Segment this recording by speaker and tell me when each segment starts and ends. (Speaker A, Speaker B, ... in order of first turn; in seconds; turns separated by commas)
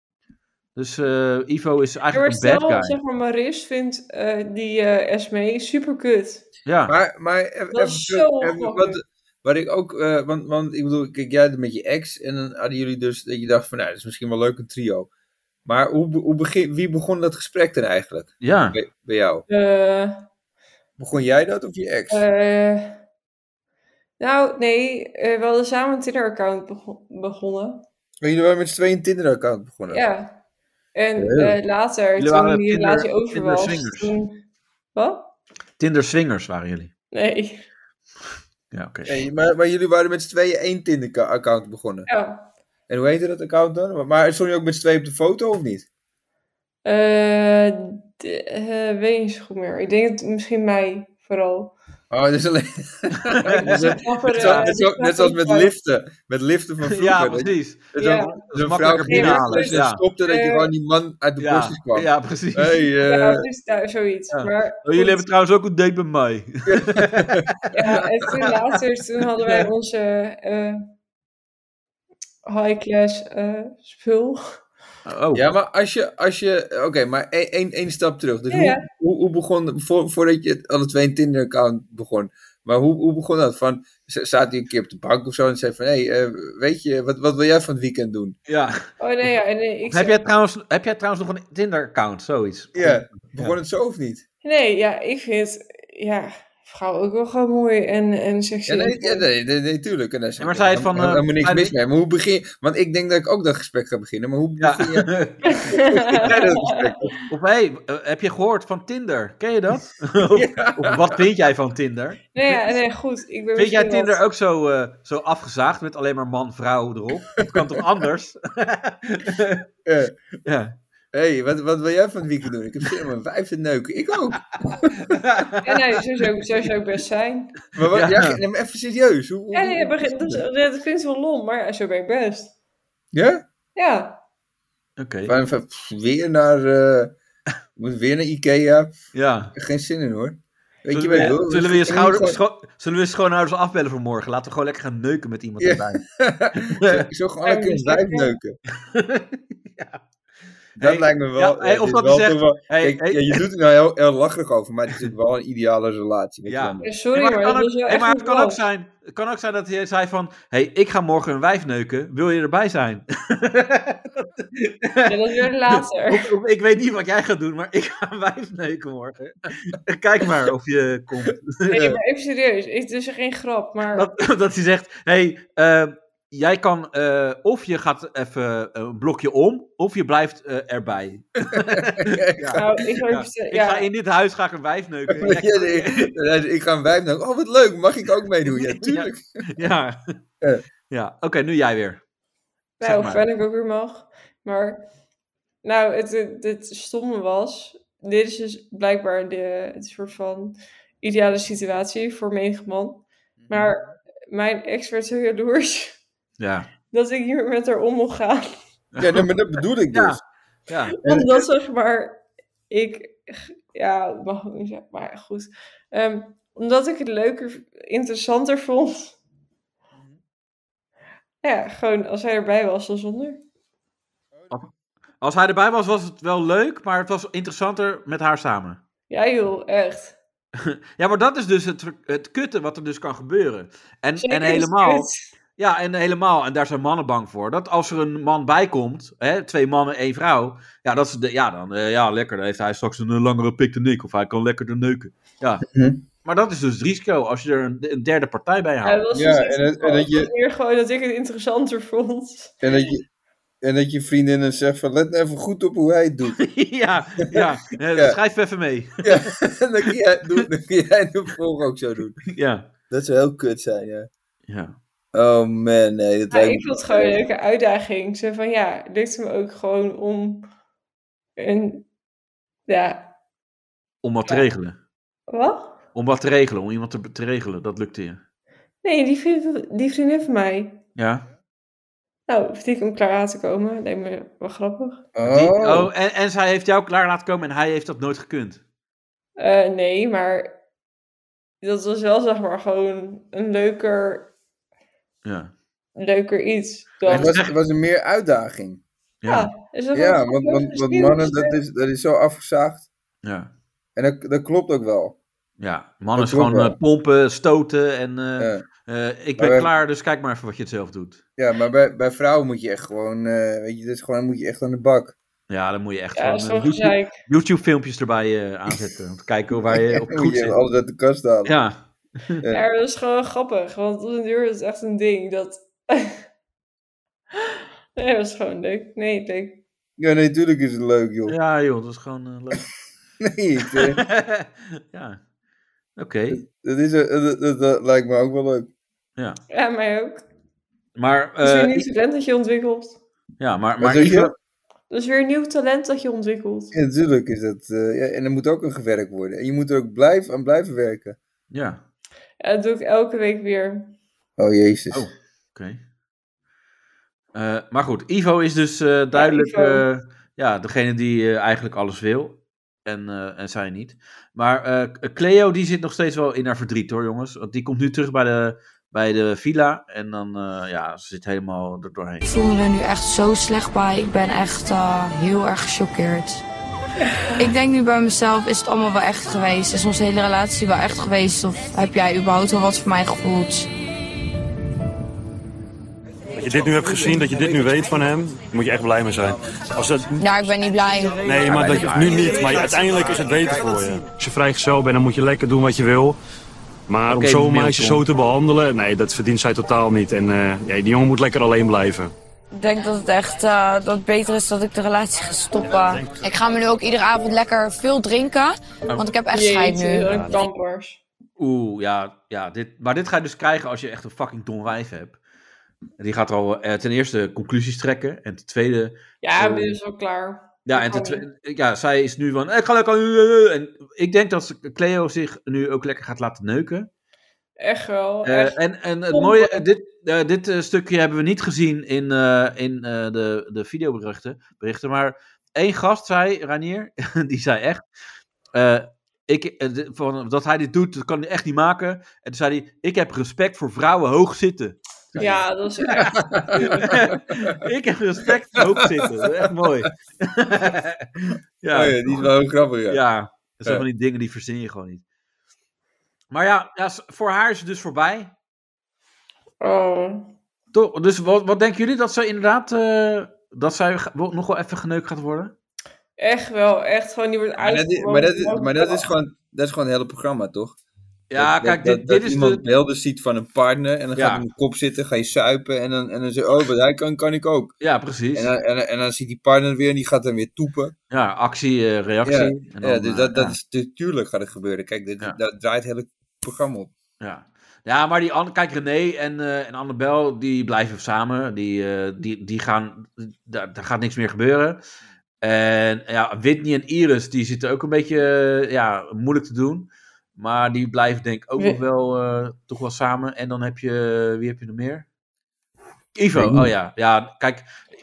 Speaker A: 0.8-3.0, Speaker B: 2.1-6.4, Speaker A: 6.7-6.9, Speaker C: 6.9-15.1, Speaker B: 7.7-9.0, Speaker C: 15.6-19.4, Speaker A: 18.4-18.8, Speaker B: 19.5-20.2, Speaker C: 21.0-22.2, Speaker B: 22.1-23.0, Speaker B: 24.2-27.8, Speaker C: 28.2-30.0, Speaker B: 29.9-30.4, Speaker B: 30.9-34.4, Speaker C: 31.2-31.5, Speaker A: 32.2-34.1, Speaker B: 34.9-35.3, Speaker A: 35.8-36.9, Speaker B: 37.1-37.7, Speaker A: 38.7-39.1, Speaker C: 39.0-42.1, Speaker B: 42.1-42.5, Speaker C: 42.9-45.9, Speaker B: 46.8-51.7, Speaker C: 52.1-63.5, Speaker A: 53.3-54.7, Speaker B: 53.5-55.7, Speaker A: 56.9-60.0, Speaker B: 58.0-58.4, Speaker B: 59.0-60.7, Speaker A: 61.4-62.8, Speaker B: 63.0-65.2, Speaker A: 64.3-67.5, Speaker C: 66.7-67.5, Speaker B: 67.7-70.8, Speaker B: 72.5-74.4, Speaker A: 75.0-75.4, Speaker C: 75.3-88.3, Speaker B: 78.5-78.8, Speaker A: 88.5-88.8, Speaker B: 89.0-90.2, Speaker A: 89.9-93.5, Speaker C: 92.7-94.2, Speaker B: 94.4-99.2, Speaker C: 98.7-105.1, Speaker A: 100.4-101.7, Speaker A: 104.6-105.5, Speaker B: 105.4-106.9, Speaker C: 105.7-107.1, Speaker A: 107.3-112.6, Speaker C: 110.3-111.2, Speaker B: 112.3-114.2, Speaker A: 113.5-119.6, Speaker C: 119.8-120.1, Speaker A: 120.4-120.7, Speaker C: 121.1-125.1, Speaker A: 125.1-125.8, Speaker B: 125.6-127.5, Speaker C: 127.7-130.4, Speaker A: 127.9-128.4, Speaker B: 129.5-132.5, Speaker C: 133.1-133.4, Speaker B: 133.8-134.2, Speaker A: 135.0-135.3, Speaker C: 135.2-137.1, Speaker C: 137.8-138.9, Speaker A: 139.1-139.5, Speaker C: 139.5-142.4, Speaker A: 140.9-146.0, Speaker C: 145.6-148.6, Speaker A: 146.6-147.1, Speaker B: 147.4-148.3, Speaker A: 148.8-150.0, Speaker A: 150.8-153.4, Speaker C: 150.8-156.8, Speaker A: 156.5-171.9, Speaker B: 156.8-158.6, Speaker B: 165.1-166.3, Speaker B: 171.7-174.1, Speaker A: 173.9-186.1, Speaker C: 181.7-182.6, Speaker B: 182.6-183.9, Speaker C: 185.1-189.2, Speaker A: 188.6-190.0, Speaker A: 190.9-192.0, Speaker B: 192.8-194.8, Speaker A: 192.8-193.2, Speaker B: 195.6-206.0, Speaker C: 203.4-203.7, Speaker A: 206.4-206.7, Speaker B: 206.9-208.6, Speaker A: 208.9-209.3, Speaker C: 209.0-210.2, Speaker A: 209.9-211.0, Speaker B: 211.0-219.2, Speaker C: 211.0-211.4, Speaker B: 221.4-223.4, Speaker C: 224.3-224.7, Speaker A: 225.2-228.8, Speaker B: 229.1-230.2, Speaker A: 230.6-245.6, Speaker B: 234.2-235.2, Speaker C: 245.7-246.0, Speaker A: 246.2-249.0, Speaker B: 248.8-252.6, Speaker C: 249.1-250.3, Speaker C: 252.6-253.0, Speaker C: 253.6-256.4, Speaker A: 256.4-259.3, Speaker C: 257.3-258.2, Speaker C: 259.0-262.2, Speaker A: 262.3-262.7, Speaker C: 262.9-264.1, Speaker A: 264.5-264.8, Speaker C: 265.1-267.2, Speaker B: 266.3-270.5, Speaker B: 271.4-271.9, Speaker B: 272.7-273.1, Speaker A: 274.0-274.7, Speaker B: 275.3-275.8, Speaker A: 275.9-278.2, Speaker B: 278.8-280.8, Speaker A: 280.9-281.2, Speaker B: 282.3-285.0, Speaker C: 285.1-285.9, Speaker A: 285.3-288.6, Speaker B: 289.4-290.5, Speaker B: 291.6-294.3, Speaker A: 295.2-295.5, Speaker B: 296.0-297.3, Speaker A: 297.1-297.5, Speaker C: 297.1-298.8, Speaker A: 299.2-299.5, Speaker B: 299.3-301.6, Speaker C: 299.9-302.9, Speaker A: 303.2-303.5, Speaker C: 303.9-305.2, Speaker A: 305.6-311.2, Speaker C: 306.1-306.8, Speaker C: 308.4-308.6, Speaker C: 309.4-309.7, Speaker C: 311.4-315.1, Speaker A: 315.5-320.6, Speaker B: 316.1-317.1, Speaker C: 319.7-321.5, Speaker A: 321.4-321.8, Speaker B: 322.5-326.2, Speaker B: 327.4-329.6, Speaker C: 330.0-331.4, Speaker A: 331.3-332.7, Speaker C: 333.2-334.0, Speaker A: 333.6-335.2, Speaker A: 336.0-336.4, Speaker C: 336.3-338.7, Speaker B: 339.5-340.2, Speaker A: 340.9-341.9, Speaker B: 341.4-343.0, Speaker A: 343.4-344.3, Speaker C: 343.8-344.3, Speaker B: 344.9-346.7, Speaker C: 346.7-351.2, Speaker A: 351.5-351.8, Speaker B: 352.4-353.9, Speaker C: 354.4-355.1, Speaker A: 354.9-355.8, Speaker A: 357.3-372.2, Speaker B: 359.1-359.8, Speaker D: 372.2-376.4, Speaker B: 377.1-377.4, Speaker D: 377.4-383.7, Speaker E: 386.3-390.2, Speaker D: 390.2-392.4, Speaker E: 391.2-396.2, Speaker A: 391.5-392.4, Speaker E: 396.9-402.1, Speaker A: 397.1-398.0, Speaker D: 402.5-410.5, Speaker E: 405.6-406.2, Speaker B: 409.3-411.0, Speaker A: 411.4-415.2, Speaker A: 416.0-419.8, Speaker B: 419.2-421.2, Speaker A: 420.6-426.9, Speaker B: 427.6-428.6, Speaker A: 428.2-437.8, Speaker B: 429.1-429.6, Speaker A: 438.5-445.2, Speaker C: 445.1-445.4, Speaker B: 445.1-446.9, Speaker C: 445.9-447.0, Speaker A: 446.9-451.0, Speaker C: 448.6-449.7, Speaker A: 451.6-452.3, Speaker C: 451.7-453.0, Speaker A: 452.9-455.0, Speaker A: 456.3-458.3, Speaker B: 459.6-460.3, Speaker A: 460.7-465.5, Speaker B: 466.2-469.1, Speaker C: 467.6-470.8, Speaker A: 471.3-472.6, Speaker C: 471.4-477.7, Speaker A: 474.1-474.4, Speaker A: 477.8-478.5, Speaker C: 478.3-480.9, Speaker A: 481.1-483.6, Speaker C: 482.2-486.9, Speaker A: 487.2-494.8, Speaker A: 495.4-505.1, Speaker A: 506.1-507.7, Speaker C: 506.3-506.7